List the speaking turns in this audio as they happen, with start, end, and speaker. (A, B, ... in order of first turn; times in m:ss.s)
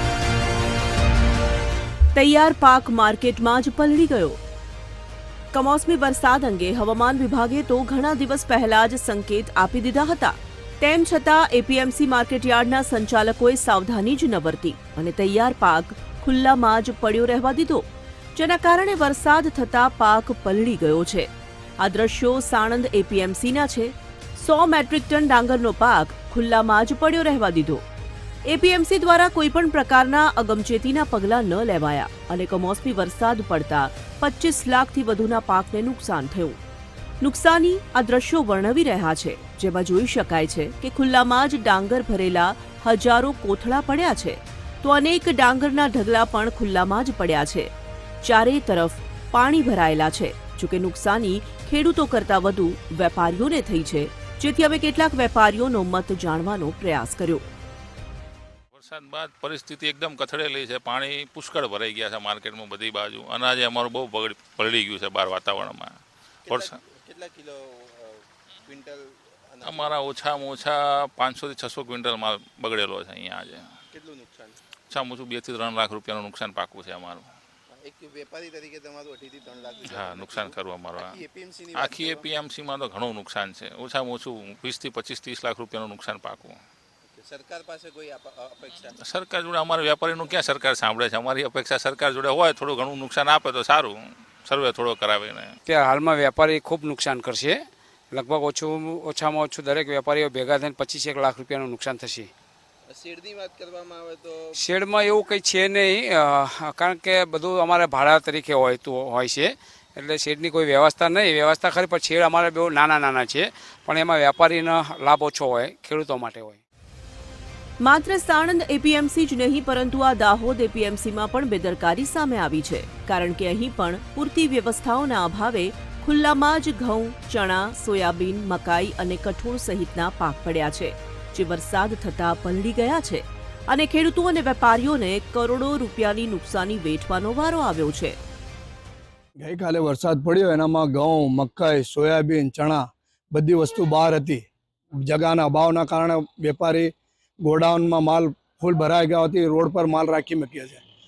0:02.1-0:04.4 A
0:05.5-0:27.8 A
0:28.5-0:36.6 A
0:37.2-0:47.7 A
0:48.2-0:57.5 A
0:58.7-1:06.8 B
1:06.5-1:10.0 C
1:09.6-1:13.7 B
1:13.9-1:14.6 C
1:14.9-1:17.3 B
1:17.7-1:22.3 C
1:19.8-1:21.2 B
1:21.7-1:26.6 B
1:27.1-1:29.0 C
1:29.0-1:35.6 B
1:35.7-1:37.6 D
1:38.1-1:42.3 D
1:42.9-1:44.6 C
1:44.6-1:56.6 D
1:57.8-2:18.2 A
2:19.4-2:24.4 E
2:25.1-2:26.9 E
2:27.4-2:30.8 E